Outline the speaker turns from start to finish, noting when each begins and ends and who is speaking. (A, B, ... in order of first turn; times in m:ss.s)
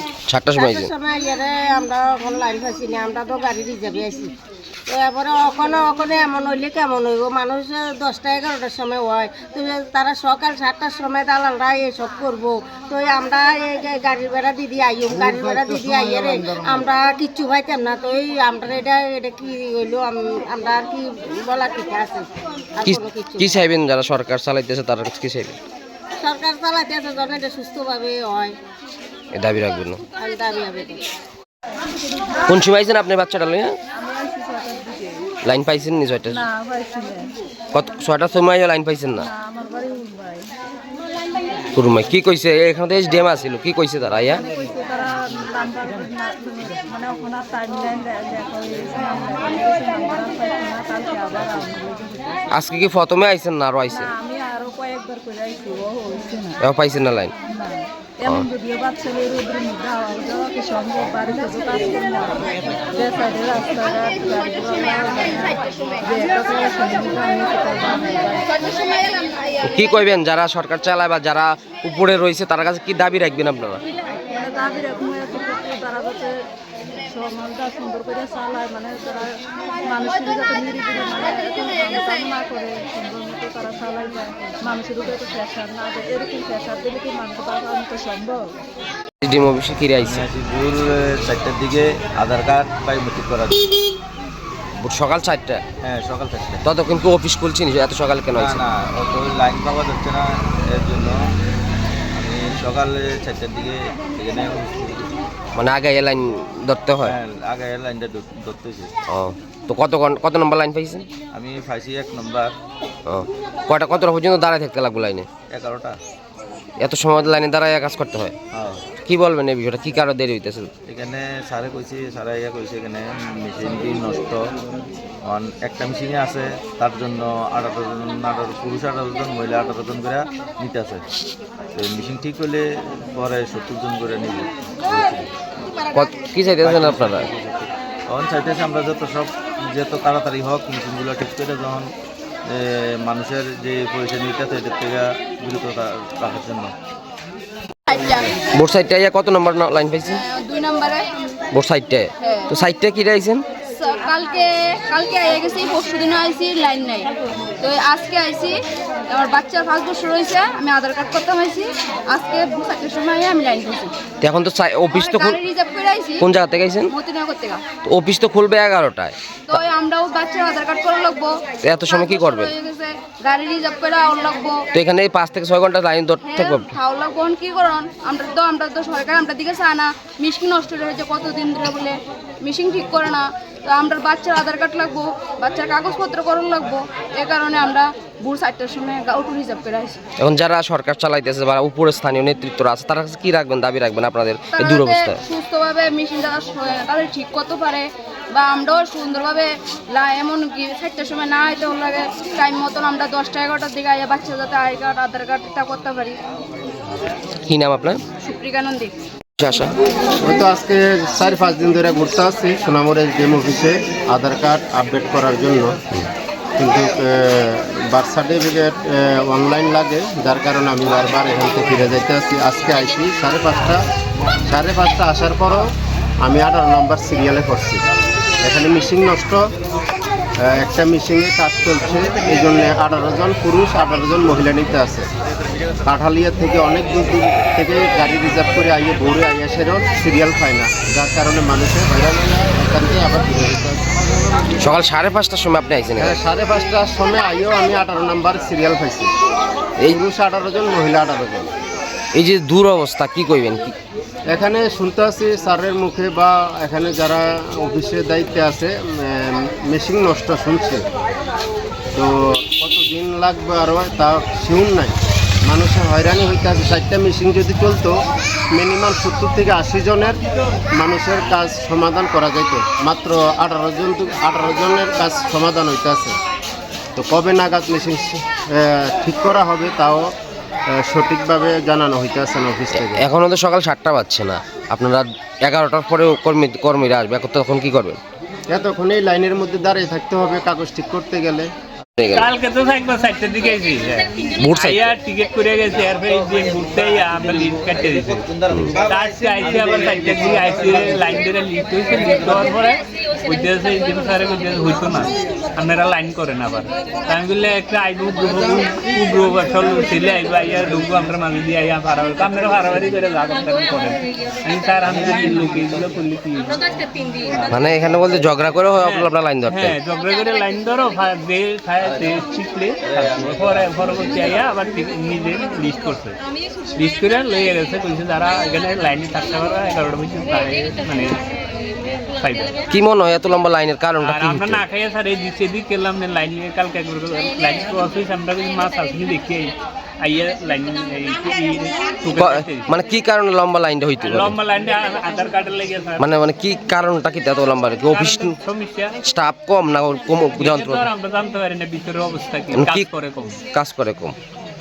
0:00.3-0:00.9 A
0:00.6-0:04.3 B
0:04.9-0:23.6 B
0:15.1-0:16.7 C
0:22.8-0:25.6 A
0:26.2-0:28.6 B
0:29.3-0:30.0 A
0:30.2-0:31.0 B
0:32.4-0:33.8 A
0:34.0-0:35.3 D
0:35.4-0:36.4 A
0:36.3-0:37.3 D
0:37.7-0:39.3 A
0:39.2-0:40.5 D
0:41.7-0:44.4 A
0:44.3-0:52.5 D
0:52.5-0:54.1 A
0:53.9-0:56.6 D
0:56.6-0:57.3 A
0:57.5-1:08.5 D
1:08.7-1:09.6 E
1:09.6-1:13.8 A
1:14.2-1:16.4 D
1:17.0-1:19.3 D
1:19.8-1:28.5 D
1:29.2-1:30.2 A
1:30.0-1:33.6 F
1:34.8-1:35.6 A
1:35.8-1:36.6 F
1:36.6-1:38.6 A
1:38.3-1:41.2 F
1:42.2-1:45.1 F
1:45.6-1:47.2 A
1:47.0-1:48.9 F
1:49.1-1:51.0 A
1:51.3-1:52.5 F
1:53.0-1:55.3 A
1:55.5-1:56.0 F
1:56.8-1:58.3 A
1:58.5-1:58.8 F
1:59.0-2:00.7 A
2:00.9-2:04.4 F
2:05.2-2:11.0 F
2:11.8-2:15.6 F
2:15.9-2:17.3 A
2:16.6-2:21.9 F
2:22.5-2:26.7 F
2:27.9-2:28.4 E
2:28.5-2:30.2 A
2:30.2-2:31.1 E
2:31.5-2:33.4 A
2:32.2-2:32.5 E
2:33.8-2:37.1 E
2:37.6-2:38.6 E
2:39.1-2:43.9 E
2:44.2-2:45.4 A
2:44.9-2:46.2 E
2:46.2-2:46.9 A
2:46.9-2:47.6 E
2:47.8-2:49.6 A
2:49.5-2:54.6 E
2:51.6-2:52.5 A
2:54.7-2:56.7 A
2:56.2-3:10.0 E
3:10.2-3:15.2 A
3:14.6-3:26.2 E
3:27.4-3:28.0 A
3:28.2-3:28.9 E
3:29.4-3:29.7 A
3:30.2-3:35.8 C
3:36.6-3:43.8 C
3:44.5-3:45.6 C
3:46.2-3:47.8 C
3:48.4-3:49.4 C
3:50.4-3:55.1 C
3:55.8-4:04.0 C
4:04.6-4:06.2 A
4:06.0-4:09.1 C
4:09.9-4:11.5 C
4:12.2-4:13.8 A
4:14.3-4:20.8 C
4:22.0-4:28.0 C
4:28.5-4:30.2 C
4:30.8-4:36.2 C
4:37.0-4:40.1 C
4:40.7-4:43.0 C
4:42.7-4:48.0 A
4:48.5-4:51.5 C
4:52.0-4:52.3 A
4:52.1-4:58.2 G
4:54.4-4:54.8 A
4:55.9-5:01.3 F
4:58.9-5:16.6 G
5:01.9-5:02.5 F
5:14.9-5:15.8 F
5:17.5-5:19.8 A
5:18.8-5:26.2 G
5:21.8-5:22.3 F
5:22.8-5:24.5 F
5:26.8-5:31.2 G
5:32.1-5:32.6 G
5:32.7-5:34.6 A
5:34.0-5:42.7 G
5:42.2-5:44.4 A
5:44.0-5:46.1 G
5:46.0-5:48.3 A
5:47.9-5:49.0 G
5:49.0-5:50.9 A
5:50.4-5:53.4 G
5:52.5-5:52.9 A
5:53.5-5:54.2 A